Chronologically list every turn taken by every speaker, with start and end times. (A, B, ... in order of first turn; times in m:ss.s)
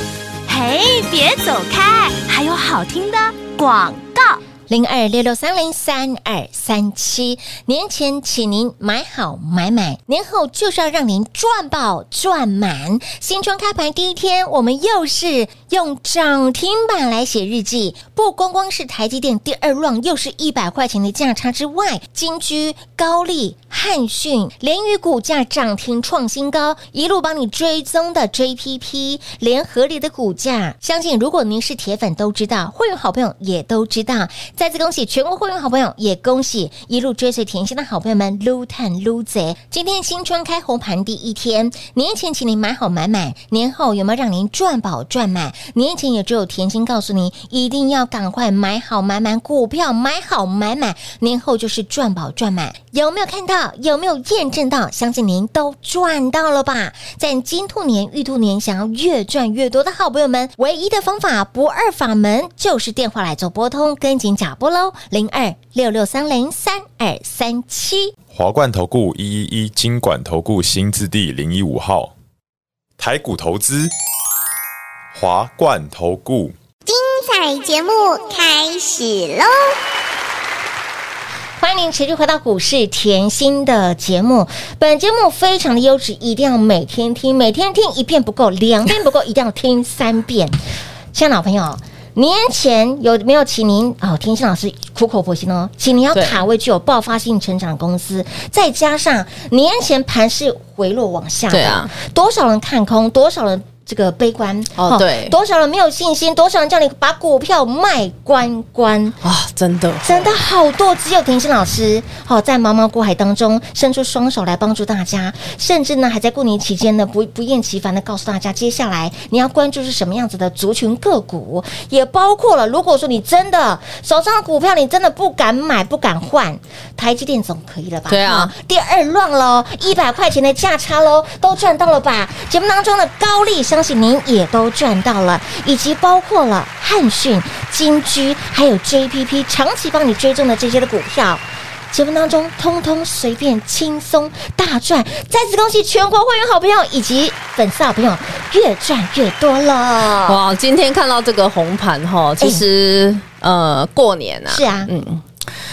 0:00.5-0:04.4 A
0:04.7-1:08.1 B
1:08.3-1:12.1 C
1:13.0-1:13.9 C
1:15.1-1:16.6 C
1:16.9-1:19.7 D
1:21.6-1:30.6 B
1:31.1-1:49.2 B
1:41.5-1:41.9 E
1:44.8-1:45.3 E
1:49.2-1:50.4 E
1:50.0-2:30.4 B
2:08.1-2:08.5 E
2:30.3-2:35.2 E
2:34.5-2:34.9 B